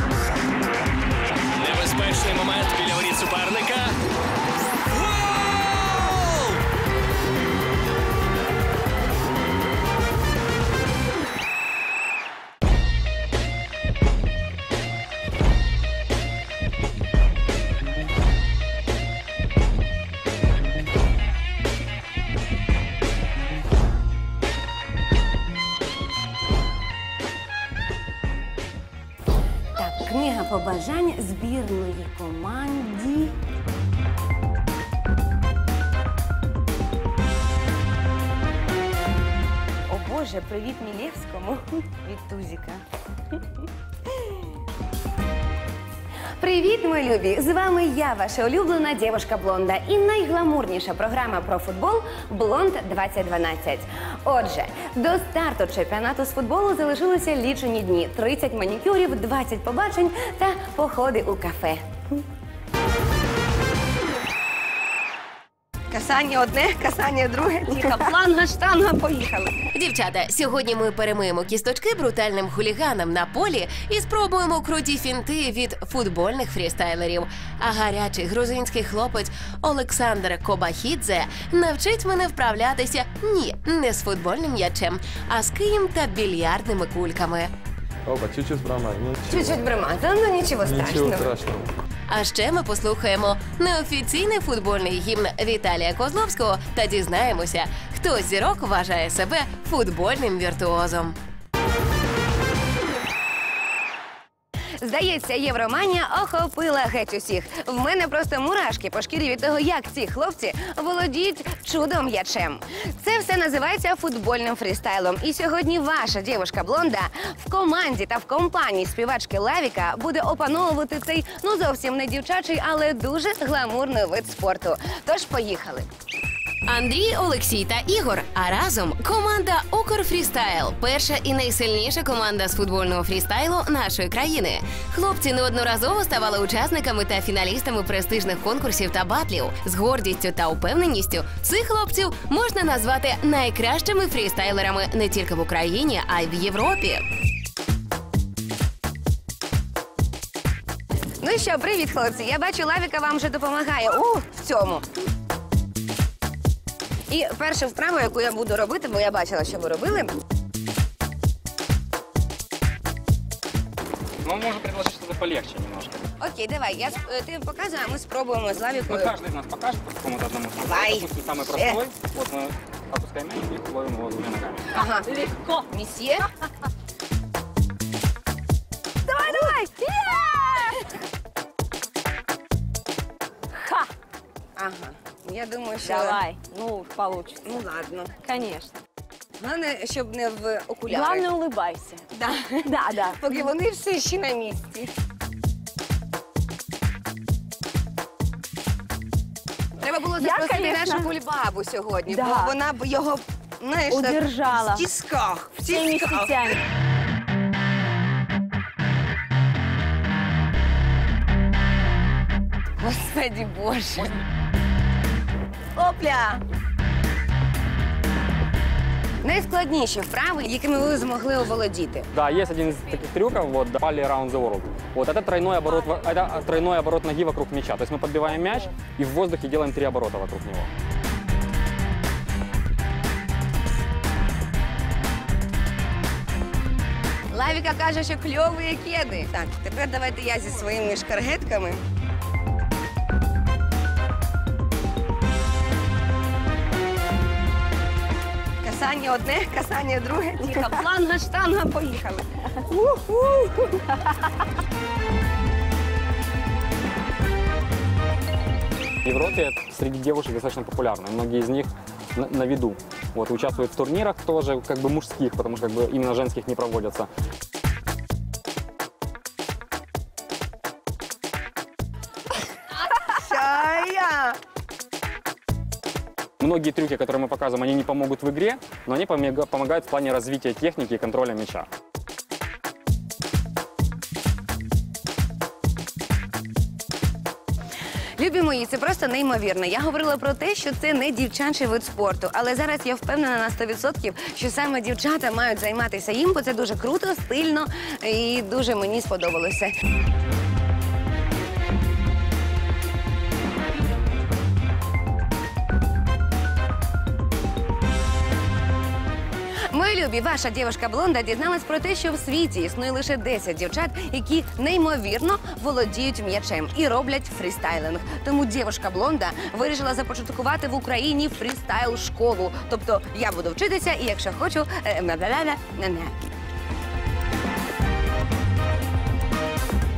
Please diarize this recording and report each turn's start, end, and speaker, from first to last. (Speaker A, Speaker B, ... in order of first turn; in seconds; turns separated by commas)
Speaker A: 1.6-3.9, Speaker A: 5.0-6.0, Speaker B: 29.8-33.4, Speaker B: 39.9-42.8, Speaker B: 46.4-61.8, Speaker B: 65.9-69.5, Speaker C: 69.7-87.5, Speaker D: 88.1-89.7, Speaker B: 89.3-91.3, Speaker D: 90.6-91.7, Speaker C: 92.1-101.2, Speaker B: 104.8-125.9, Speaker C: 126.7-147.0, Speaker B: 151.2-154.8, Speaker B: 157.1-160.1, Speaker E: 164.2-166.0, Speaker B: 166.2-169.2, Speaker E: 168.9-174.7, Speaker B: 170.6-171.9, Speaker B: 174.7-176.3, Speaker B: 179.1-179.7, Speaker F: 179.3-180.3, Speaker F: 183.6-183.9, Speaker B: 184.6-186.3, Speaker F: 185.8-187.4, Speaker B: 187.4-188.2, Speaker F: 188.2-188.7, Speaker B: 189.4-191.4, Speaker F: 190.9-192.0, Speaker B: 192.1-194.9, Speaker F: 192.7-193.4, Speaker B: 199.8-206.5, Speaker F: 200.2-201.1, Speaker F: 202.1-202.5, Speaker F: 203.9-204.8, Speaker F: 205.7-206.6, Speaker B: 212.8-214.2, Speaker B: 215.8-216.4, Speaker B: 219.2-222.1, Speaker E: 222.2-230.7, Speaker B: 237.3-241.8, Speaker B: 248.6-252.2, Speaker E: 259.1-267.1, Speaker B: 273.1-274.4, Speaker E: 276.4-281.7, Speaker B: 288.2-299.7, Speaker B: 309.7-326.3